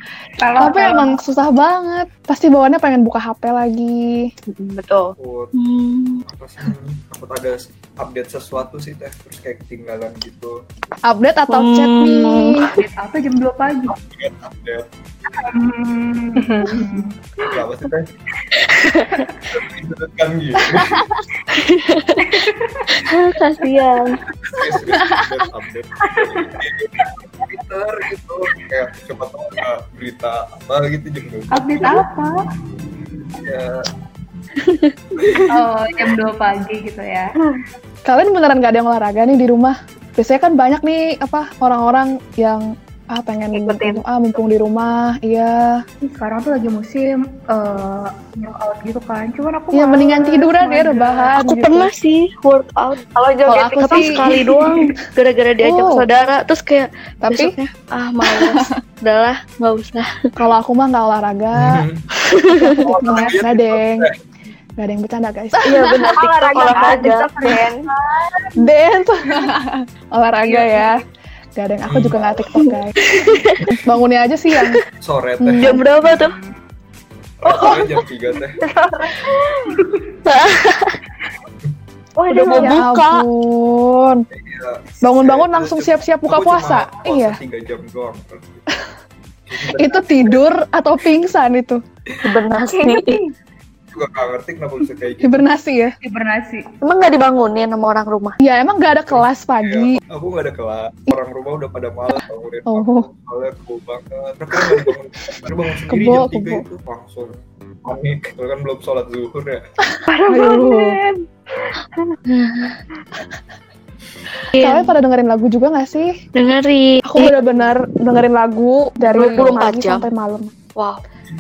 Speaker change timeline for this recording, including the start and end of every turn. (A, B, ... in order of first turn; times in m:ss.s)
0:00.4-0:01.2 A
0:00.6-0:04.3 B
0:04.5-0:05.2 C
0:05.2-0:05.5 D
0:05.6-0:06.2 E
0:06.3-0:10.6 D
0:11.1-0:12.7 B
0:11.5-0:12.7 E
0:12.7-0:14.0 A
0:13.9-0:14.9 D
0:15.4-0:17.1 A
0:17.4-0:18.1 D
0:18.7-0:19.2 E
0:19.5-0:21.1 D
0:21.6-0:22.4 E
0:22.2-0:22.9 A
0:23.0-0:24.2 E
0:24.5-0:32.0 D
0:26.2-0:26.6 A
0:31.5-0:32.4 A
0:33.4-0:33.8 D
0:35.2-0:35.5 D
0:35.5-0:37.3 A
0:38.0-0:45.8 B
0:43.5-0:44.0 C
0:46.0-0:51.4 A
0:49.7-0:51.9 B
0:51.4-0:53.0 E
0:53.2-0:54.3 C
0:53.5-0:54.7 B
0:53.8-1:00.3 E
0:55.6-0:56.1 B
0:57.2-0:57.6 B
0:58.2-0:58.8 B
1:00.4-1:01.8 B
1:01.5-1:02.0 D
1:02.2-1:02.8 E
1:02.5-1:04.1 B
1:02.8-1:04.2 D
1:03.0-1:03.4 A
1:04.8-1:06.1 B
1:05.6-1:07.5 E
1:06.1-1:07.9 C
1:08.6-1:11.0 B
1:10.4-1:11.0 A
1:11.6-1:13.0 B
1:11.9-1:12.6 D
1:13.0-1:13.7 E
1:13.7-1:14.8 B
1:15.0-1:15.8 D
1:15.4-1:15.8 B
1:15.6-1:16.3 E
1:16.0-1:16.6 A
1:17.4-1:18.6 D
1:18.6-1:19.8 C
1:20.3-1:21.0 E
1:22.2-1:22.8 C
1:22.3-1:24.3 B
1:22.5-1:23.3 E
1:24.3-1:28.7 D
1:25.0-1:27.4 B
1:29.5-1:30.4 D
1:29.6-1:31.8 B
1:32.2-1:33.2 E
1:32.7-1:33.3 C
1:33.9-1:35.5 D
1:35.2-1:36.0 B
1:36.0-1:36.7 A
1:36.8-1:38.4 E
1:38.4-1:40.0 B
1:39.1-1:49.6 D
1:42.7-1:43.1 B
1:45.9-1:46.6 B
1:49.9-1:51.0 B
1:50.1-1:52.0 C
1:52.3-1:52.8 E
1:54.5-1:54.9 E
1:54.6-1:56.1 B
1:56.4-1:57.3 E
1:57.0-2:00.5 B
1:59.1-2:00.1 E
1:59.2-1:59.5 A
2:00.8-2:01.0 E